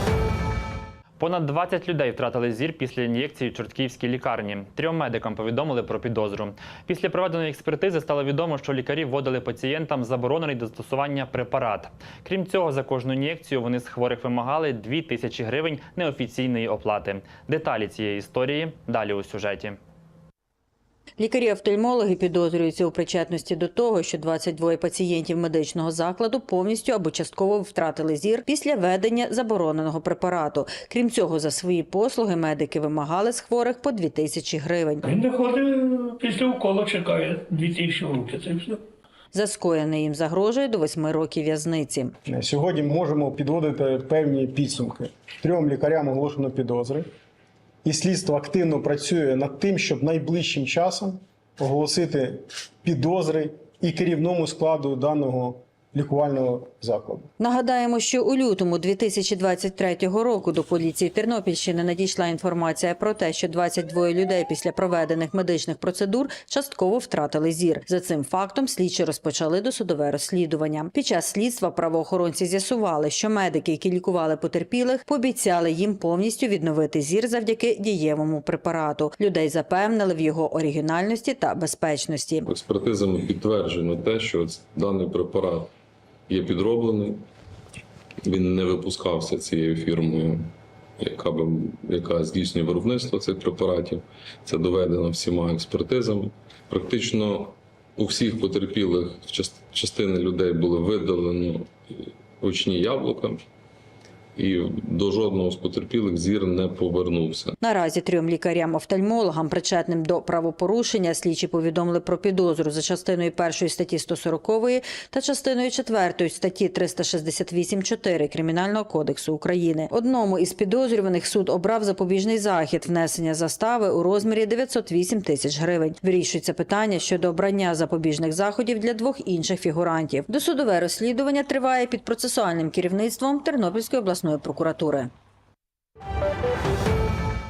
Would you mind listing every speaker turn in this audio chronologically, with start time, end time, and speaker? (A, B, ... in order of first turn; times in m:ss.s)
0:01.2-0:19.8 A
0:21.2-0:35.0 B
0:35.0-0:38.8 C
0:39.3-0:42.1 B
0:42.3-0:47.1 D
0:47.8-0:57.3 D
0:57.4-1:22.4 B
1:22.5-1:25.7 E
1:26.3-1:27.2 E
1:28.2-1:43.4 E
1:44.4-1:47.6 E
1:47.6-2:15.1 B